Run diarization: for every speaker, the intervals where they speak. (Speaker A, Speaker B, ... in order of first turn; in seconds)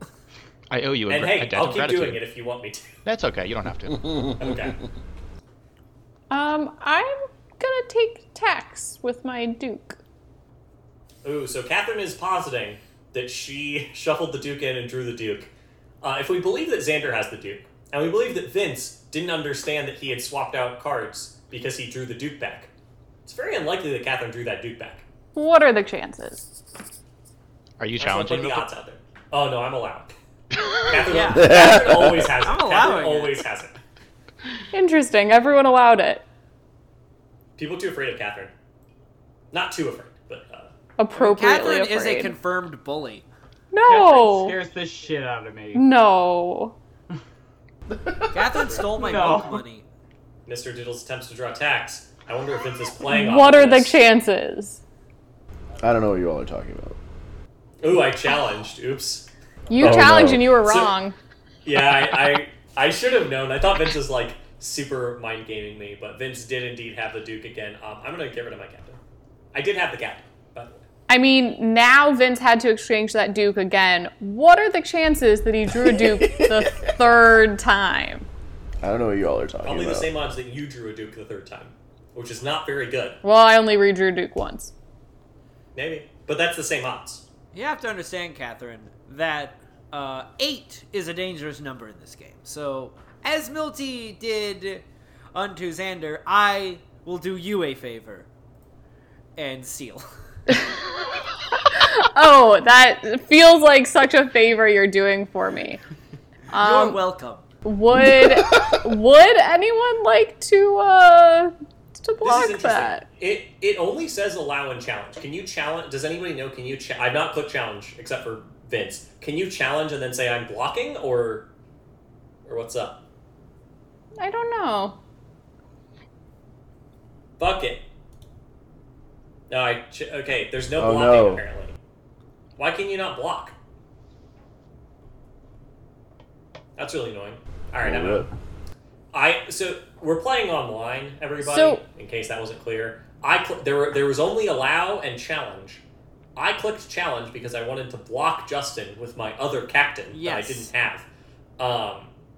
Speaker A: 0.7-2.2, 3.0-4.1, 27.8-28.6
Speaker B: 1.1-2.9, 4.4-4.8, 11.2-15.5, 16.0-22.7, 23.2-25.0, 28.0-30.1, 30.8-33.8, 37.6-38.5, 39.5-40.7, 50.5-54.0, 57.8-59.3, 59.8-60.9, 61.6-69.0, 69.5-70.8, 79.6-83.2, 85.7-87.2, 112.2-121.5, 122.5-123.0, 127.4-127.8, 129.5-131.8, 132.6-133.5, 136.8-138.3, 139.1-145.8, 146.3-151.1, 151.6-152.1
Speaker C: 6.3-10.0, 25.3-26.5, 34.7-36.2, 41.0-42.3, 43.7-44.6, 45.7-46.8, 53.0-54.8, 59.7-61.1, 71.1-78.2, 83.2-84.7, 100.5-100.9, 101.5-105.8, 106.5-107.0, 107.6-113.0, 124.2-125.0, 141.4-141.8
Speaker D: 31.1-33.4, 41.1-43.3, 48.3-49.8, 87.5-98.3, 99.4-100.0, 106.5-107.5, 150.1-150.7
Speaker E: 31.3-32.3, 47.9-48.4, 55.8-57.0, 59.8-60.5, 75.8-76.6, 78.8-80.1, 108.0-108.8, 130.8-131.4, 137.8-138.3
Speaker F: 43.9-45.9, 48.9-49.6